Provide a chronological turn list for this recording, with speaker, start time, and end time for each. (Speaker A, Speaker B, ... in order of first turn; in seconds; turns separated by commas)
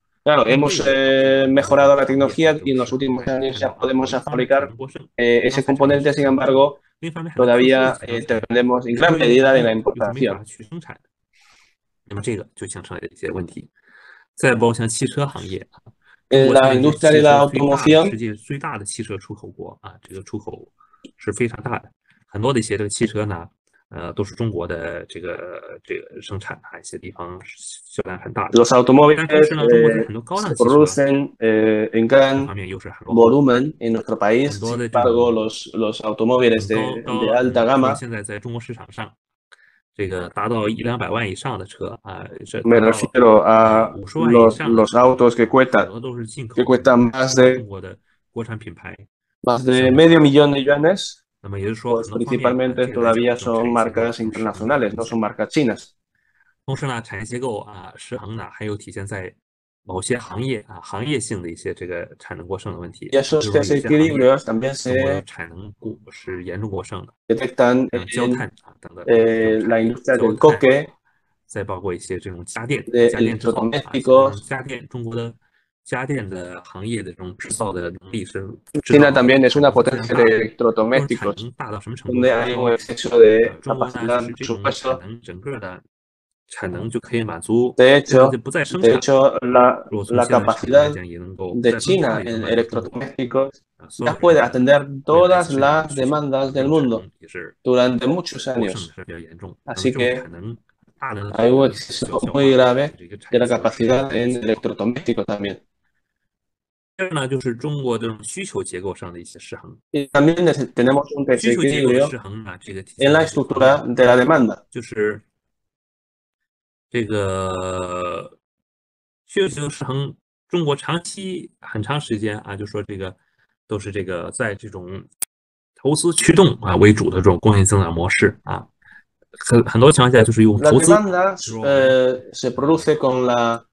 Speaker A: 0.2-6.8, Speaker B: 0.5-11.0, Speaker A: 7.4-10.4, Speaker B: 12.1-13.7, Speaker B: 14.4-15.7, Speaker A: 16.3-18.1, Speaker B: 16.3-31.0, Speaker A: 28.5-32.5, Speaker B: 32.4-33.4, Speaker A: 33.1-38.0, Speaker B: 34.4-35.4, Speaker B: 36.5-39.1, Speaker B: 39.9-49.0, Speaker A: 42.6-45.9, Speaker A: 46.6-47.6, Speaker A: 49.4-51.2, Speaker B: 49.7-50.1, Speaker B: 51.4-55.1, Speaker A: 51.9-55.9, Speaker B: 56.6-59.3, Speaker B: 59.9-64.3, Speaker A: 63.1-65.2, Speaker B: 64.9-67.1, Speaker A: 67.3-68.4, Speaker B: 67.9-70.7, Speaker A: 69.0-70.9, Speaker B: 71.5-80.4, Speaker A: 72.9-74.4, Speaker A: 78.9-81.4, Speaker B: 80.9-82.8, Speaker A: 82.1-85.0, Speaker B: 83.4-85.8, Speaker B: 86.5-89.0, Speaker A: 87.8-91.0, Speaker B: 89.9-92.9, Speaker A: 91.5-97.0, Speaker B: 93.8-97.5, Speaker A: 97.6-98.9, Speaker B: 98.5-104.6, Speaker A: 99.7-100.2, Speaker A: 101.3-105.6, Speaker B: 107.0-109.8, Speaker A: 109.9-112.1, Speaker B: 111.4-113.8, Speaker A: 113.0-114.6, Speaker B: 114.7-115.2, Speaker B: 116.9-118.3, Speaker B: 119.3-123.2, Speaker B: 123.7-125.1, Speaker B: 125.8-128.7, Speaker B: 129.4-132.9, Speaker A: 130.6-133.6